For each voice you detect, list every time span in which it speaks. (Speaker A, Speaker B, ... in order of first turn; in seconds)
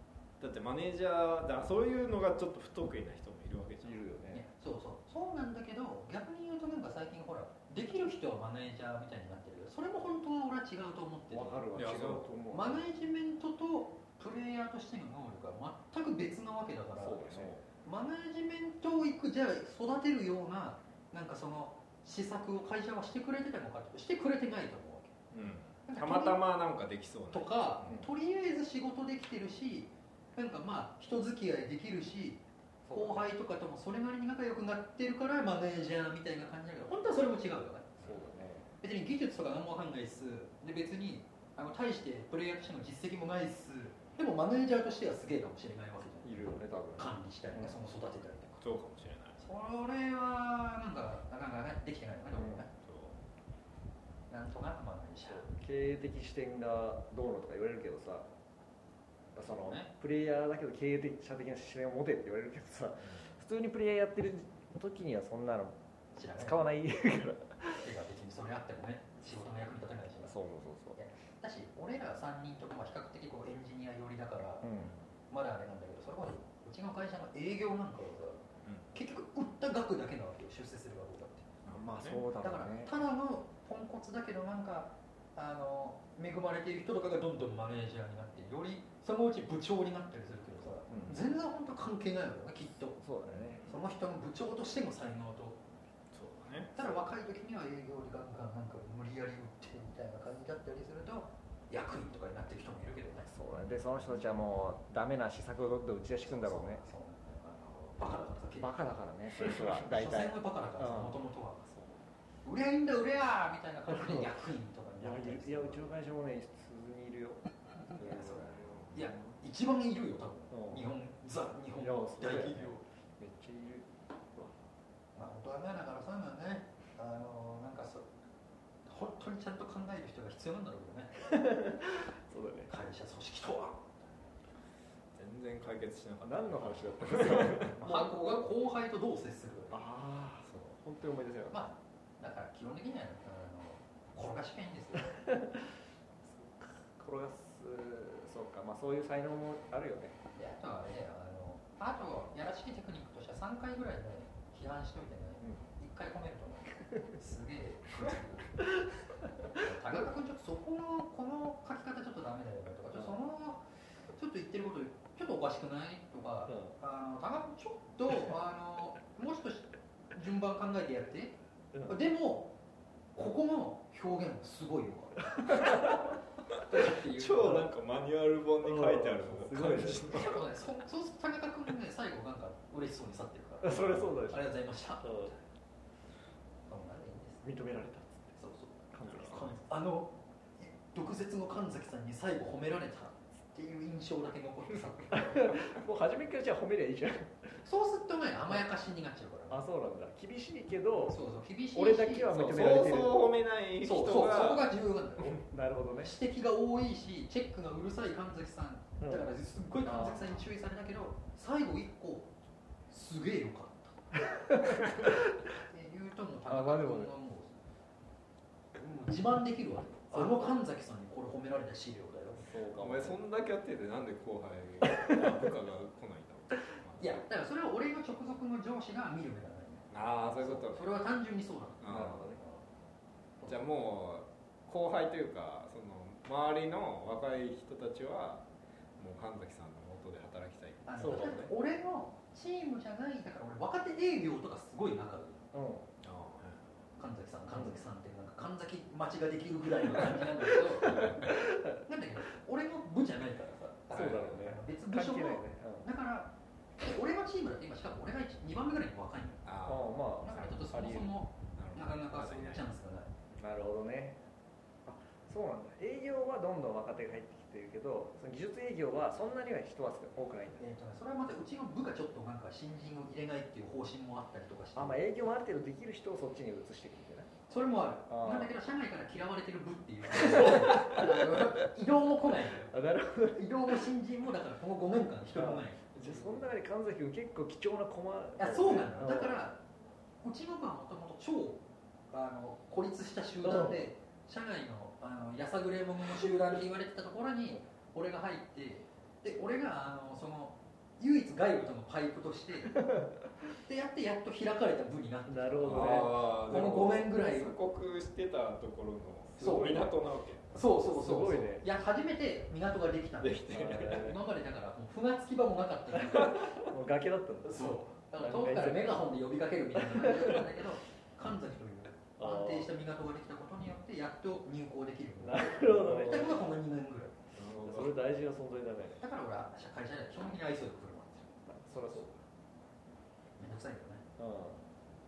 Speaker A: 0.4-4.0, 11.8-12.3, 17.2-17.6, 25.3-28.0, 48.6-49.4, 52.8-53.2, 78.7-78.9, 81.6-82.2, 93.3-93.7, 96.1-96.8, 135.2-137.8, 176.9-180.4, 183.7-184.1, 189.1-189.3, 202.3-204.7, 222.8-227.2, 229.9-231.0, 231.8-232.3, 233.5-238.4, 239.0-241.4, 246.0-246.7, 253.9-254.4, 259.4-260.0, 260.7-262.7, 285.9-286.4, 305.6-310.5, 313.2-314.1, 327.4-328.0
Speaker B: 3.8-4.5, 11.3-12.9, 17.0-17.6, 32.9-33.3, 38.0-38.7, 46.2-47.8, 52.3-52.7, 55.3-58.3, 59.3-65.8, 66.4-67.9, 70.2-71.0, 74.6-74.9, 81.7-82.9, 90.9-91.2, 93.0-93.7, 103.3-106.8, 108.6-111.2, 113.9-114.3, 115.0-117.4, 118.0-119.3, 120.5-120.9, 121.8-124.6, 131.2-132.7, 136.2-138.4, 139.7-141.6, 145.1-145.7, 146.3-150.2, 159.6-160.1, 166.5-166.8, 171.7-172.0, 175.3-176.0, 178.6-180.4, 183.6-185.3, 187.4-188.4, 188.9-189.6, 195.1-197.6, 199.5-203.2, 205.4-206.1, 209.0-209.3, 209.8-210.3, 214.3-215.3, 216.5-217.1, 220.1-220.6, 222.4-223.2, 231.9-232.4, 241.0-241.5, 245.5-245.9, 247.5-247.9, 249.9-251.8, 253.9-255.9, 259.7-261.1, 263.4-264.2, 264.9-270.6, 274.8-277.3, 278.1-278.5, 280.1-281.5, 282.7-283.7, 285.4-289.4, 293.4-293.9, 302.8-303.1, 305.3-306.9, 310.9-311.7, 313.5-314.2, 316.0-319.1, 319.8-320.6, 322.2-322.7, 325.2-326.4, 327.6-329.0, 331.5-332.1, 334.2-334.6
Speaker C: 4.3-11.7, 12.5-17.3, 17.9-25.2, 25.9-26.4, 27.3-32.4, 32.9-38.0, 38.8-48.6, 49.4-52.7, 54.3-55.5, 59.5-59.9, 66.2-66.7, 67.8-70.3, 71.0-74.7, 75.3-81.5, 82.4-93.0, 93.7-95.6, 96.8-103.3, 106.2-108.8, 109.6-111.7, 112.4-115.9, 117.9-122.8, 125.2-128.1, 128.9-131.2, 132.7-133.9, 137.8-139.8, 141.5-145.1, 150.3-158.6, 159.5-163.6, 164.2-172.5, 173.2-177.7, 180.0-185.4, 186.7-187.4, 188.4-195.6, 197.6-199.6, 201.1-202.6, 203.8-205.5, 206.0-212.3, 212.9-214.0, 215.5-217.6, 218.8-222.5, 227.0-232.6, 240.8-245.5, 247.0-259.4, 260.2-263.1, 270.6-275.0, 277.5-282.7, 283.3-285.8, 288.4-289.6, 290.2-302.8, 303.6-307.5, 309.4-309.9, 310.5-316.5, 317.4-327.1, 329.0-332.1, 333.4-334.0